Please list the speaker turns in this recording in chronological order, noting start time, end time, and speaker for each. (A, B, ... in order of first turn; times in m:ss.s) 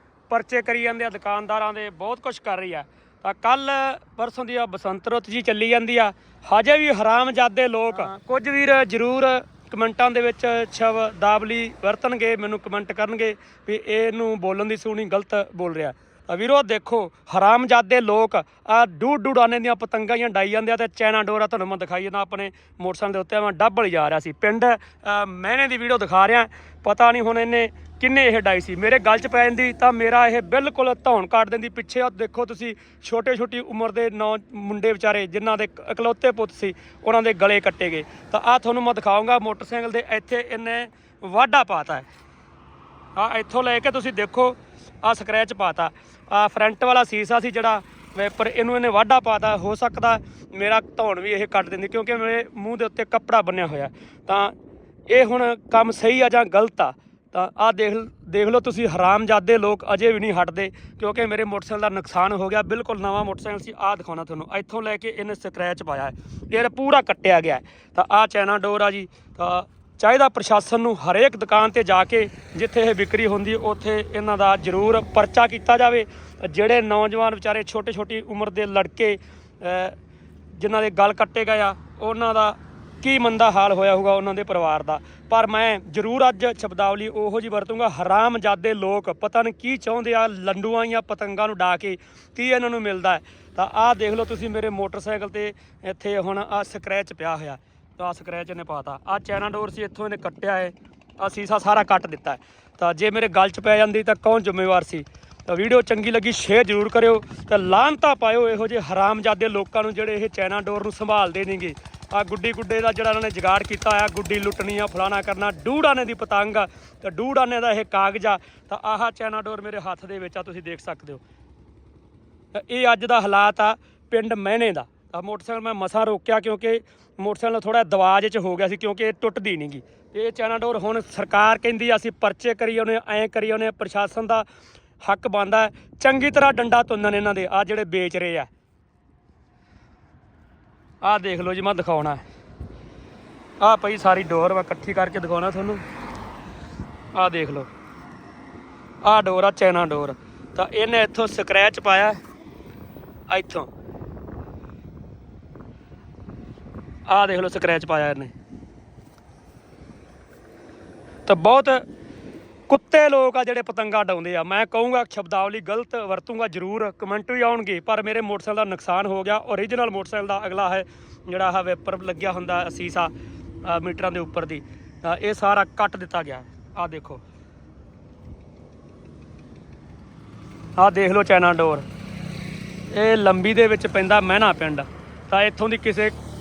0:00.3-0:42.1 A
0:43.2-0:54.5 A
0:55.1-1:19.9 A
1:20.5-2:01.2 A
2:02.5-2:14.4 A
2:15.0-2:18.5 A
2:21.0-2:22.2 A
2:23.6-2:25.8 A
2:27.1-2:27.7 A
2:29.0-2:32.2 A
2:33.3-2:33.7 A
2:37.1-2:38.3 A
2:41.2-2:41.8 A
2:42.7-2:53.1 A
2:53.6-2:57.2 A
3:00.8-3:01.9 A
3:02.9-3:06.2 A